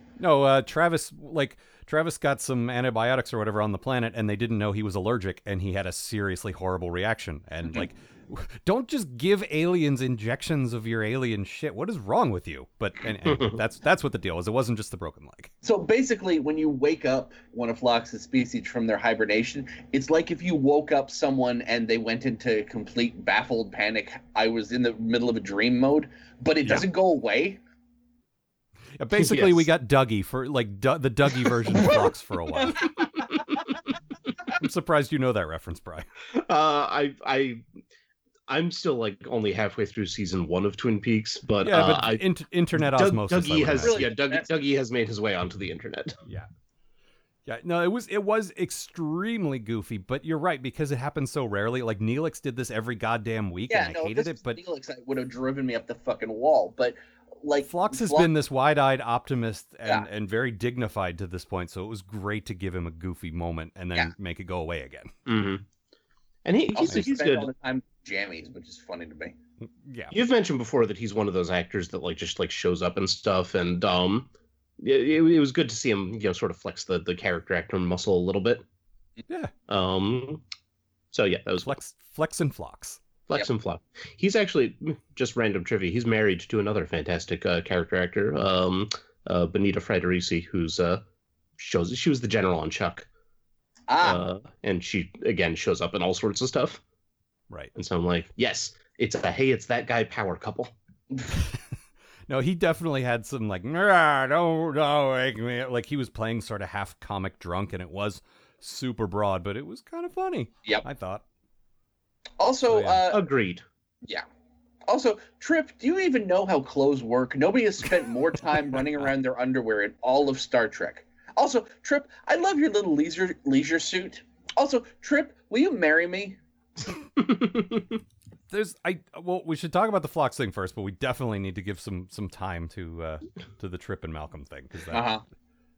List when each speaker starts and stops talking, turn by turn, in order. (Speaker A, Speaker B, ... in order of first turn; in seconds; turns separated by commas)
Speaker A: 0.2-15.5, Speaker B: 13.2-13.6, Speaker C: 15.6-27.6, Speaker A: 29.0-33.0, Speaker B: 29.1-29.7, Speaker A: 34.5-36.1, Speaker B: 36.3-37.6, Speaker B: 38.5-42.2, Speaker A: 41.6-44.1, Speaker B: 42.7-46.2, Speaker C: 43.8-44.5, Speaker A: 47.5-54.6, Speaker C: 53.7-58.3, Speaker A: 57.6-65.1, Speaker B: 65.3-65.6, Speaker B: 66.4-67.5, Speaker C: 66.7-69.3, Speaker A: 69.8-70.2, Speaker B: 70.1-74.3, Speaker B: 74.8-78.6, Speaker B: 79.7-80.4, Speaker B: 81.1-81.8, Speaker A: 81.6-83.0, Speaker B: 83.3-91.0, Speaker B: 91.6-93.1, Speaker C: 93.9-94.2, Speaker B: 94.0-96.8, Speaker B: 97.8-100.7, Speaker A: 102.3-111.2, Speaker C: 112.4-113.2, Speaker A: 112.7-113.0, Speaker B: 113.1-113.6, Speaker C: 114.9-126.4, Speaker A: 118.7-119.1, Speaker B: 127.2-128.0, Speaker A: 128.5-135.1, Speaker C: 134.9-135.2